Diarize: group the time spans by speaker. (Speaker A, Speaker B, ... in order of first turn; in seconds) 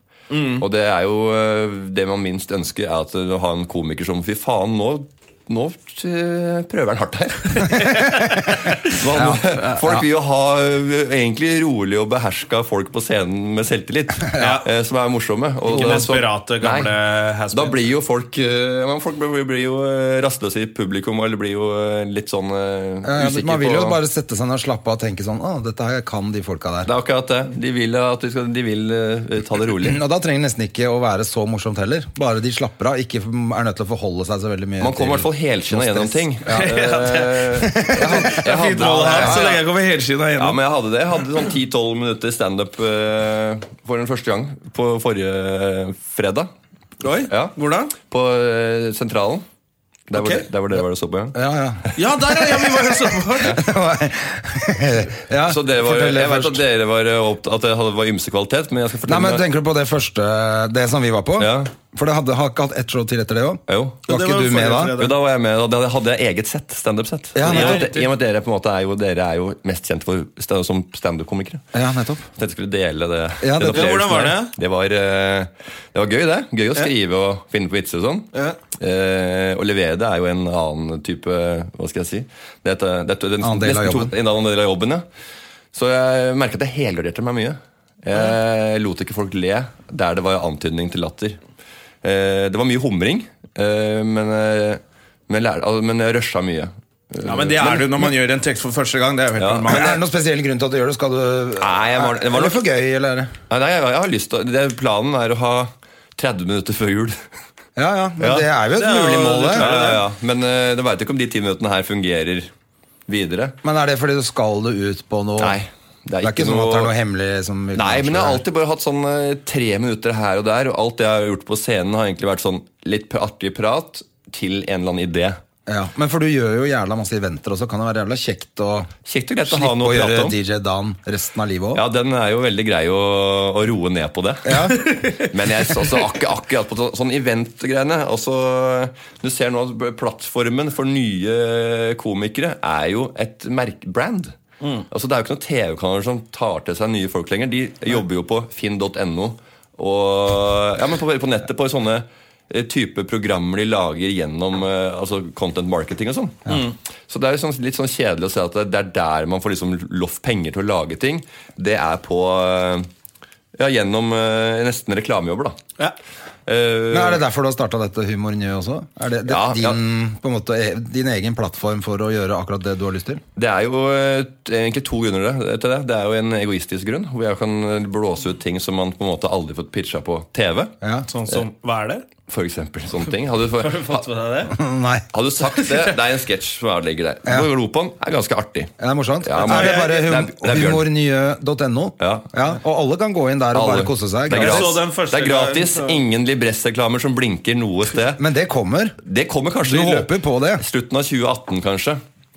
Speaker A: 0.3-0.6, 7.7-8.2, 14.4-14.6, 15.7-17.7, 36.5-40.6, 47.0-47.9, 50.1-50.4, 52.0-53.6, 64.1-65.1, 67.4-68.1, 73.7-74.5, 97.2-100.0, 108.8-110.0, 134.8-135.3, 144.6-144.8, 156.5-156.7, 181.1-182.0, 183.6-184.5, 189.4-189.9, 194.3-196.0
Speaker B: 0.6-16.9, 17.5-24.0, 26.9-30.0, 34.8-39.6, 40.4-46.5, 47.3-49.4, 50.1-51.9, 55.5-59.5, 61.4-61.7, 63.7-64.0, 65.0-71.6, 72.3-85.0, 85.7-91.4, 92.0-98.1, 99.4-99.8, 101.6-102.6, 103.5-107.2, 108.2-112.5, 113.1-113.5, 115.4-116.9, 117.7-125.4, 129.0-130.3, 131.7-144.3, 144.9-156.5, 157.1-162.9, 163.6-165.6, 166.4-167.2, 169.3-169.8, 173.3-180.7, 182.3-184.0, 185.1-190.9, 192.0-192.3, 193.5-198.2, 199.0-202.0
Speaker C: 9.1-10.1, 15.8-16.0, 23.0-26.9, 29.8-36.5, 37.6-39.5, 51.3-51.8, 53.5-56.6, 59.0-64.9, 67.3-67.9, 71.7-72.3, 73.4-74.3, 83.4-84.1, 99.7-103.3, 107.8-109.7, 113.6-115.6, 116.2-118.4, 125.7-128.9, 129.5-131.8, 134.4-134.8, 166.9-173.2, 180.8-181.1, 184.5-185.1, 188.8-194.7, 198.2-198.9, 199.6-200.6